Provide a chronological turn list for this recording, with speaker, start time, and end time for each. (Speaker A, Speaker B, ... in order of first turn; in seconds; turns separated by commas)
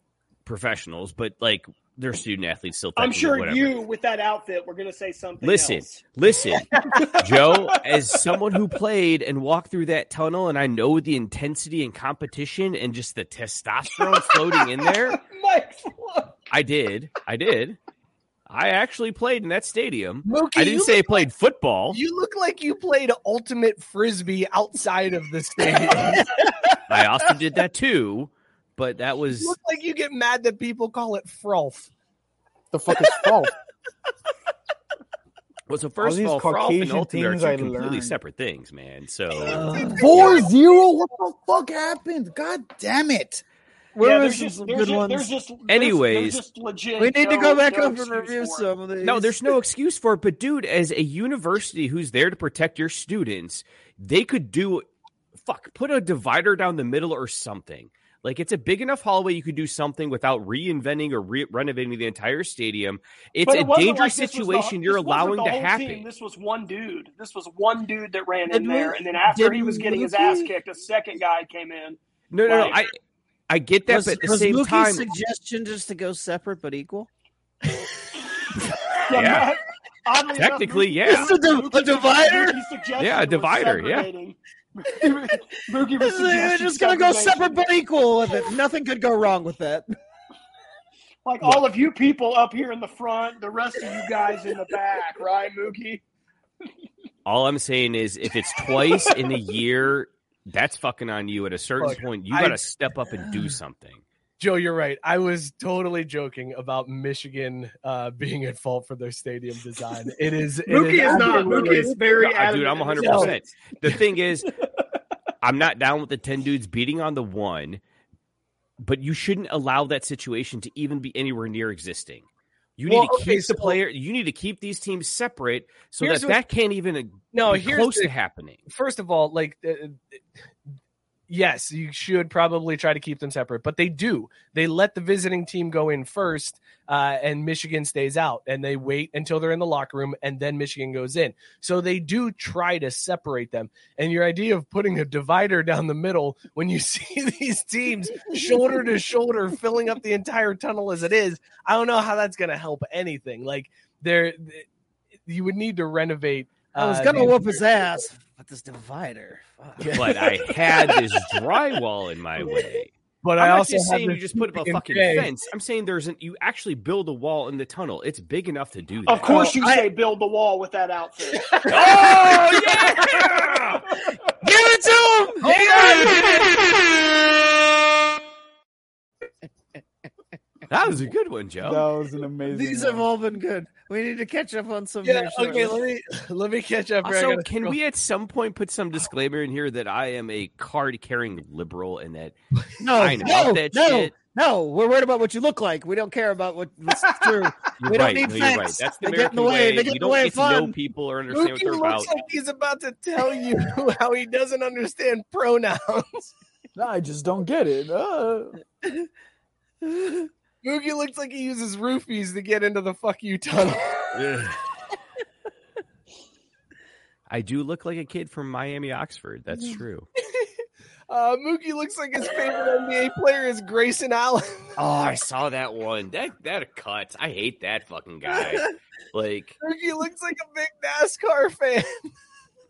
Speaker A: 0.4-3.8, Speaker B: 3.0-6.0, Speaker A: 5.4-15.2, Speaker B: 6.8-8.1, Speaker B: 14.0-16.4, Speaker A: 16.5-17.8, Speaker A: 18.5-22.0, Speaker C: 20.2-21.2, Speaker C: 21.9-26.3, Speaker A: 26.9-29.5, Speaker C: 29.4-31.9, Speaker D: 32.7-33.5, Speaker A: 35.7-40.4, Speaker D: 36.0-38.2, Speaker E: 39.4-40.3, Speaker D: 39.9-43.4, Speaker E: 43.9-45.3, Speaker B: 44.0-48.7, Speaker A: 45.7-46.4, Speaker E: 47.0-49.5, Speaker A: 49.0-54.9, Speaker A: 55.4-66.0, Speaker B: 63.4-72.8, Speaker E: 68.5-70.5, Speaker A: 72.3-72.9, Speaker A: 73.5-75.1, Speaker E: 73.9-77.1, Speaker B: 79.1-87.6, Speaker A: 79.1-79.5, Speaker A: 80.3-81.3, Speaker E: 81.0-82.6, Speaker A: 83.0-84.1, Speaker E: 86.0-89.9, Speaker B: 91.2-96.0, Speaker A: 97.2-104.0, Speaker C: 101.8-102.6, Speaker C: 104.4-112.1, Speaker B: 110.7-113.4, Speaker A: 112.0-114.5, Speaker C: 113.0-113.3, Speaker A: 115.4-117.8, Speaker A: 118.8-122.3, Speaker A: 122.8-128.6, Speaker C: 122.8-123.8, Speaker C: 126.0-126.4, Speaker C: 127.3-128.1, Speaker C: 128.7-130.2, Speaker C: 131.3-154.7, Speaker C: 155.2-157.6, Speaker E: 156.8-160.2, Speaker C: 159.8-160.2, Speaker A: 159.9-169.5, Speaker C: 163.2-165.3, Speaker B: 169.1-171.8, Speaker E: 169.3-169.9, Speaker E: 171.5-173.6, Speaker A: 171.7-172.1, Speaker E: 174.4-176.4, Speaker C: 175.4-176.2, Speaker A: 180.7-181.8, Speaker D: 181.6-183.1, Speaker E: 182.5-185.8, Speaker C: 185.0-187.8, Speaker A: 187.0-192.3, Speaker E: 192.8-200.7, Speaker A: 192.9-194.2, Speaker A: 197.8-202.1, Speaker C: 201.3-206.3, Speaker D: 206.7-208.6, Speaker E: 209.8-210.3, Speaker C: 210.6-214.0, Speaker A: 214.1-214.6, Speaker A: 217.3-220.1, Speaker C: 221.1-224.7, Speaker A: 224.8-229.6, Speaker C: 229.6-232.1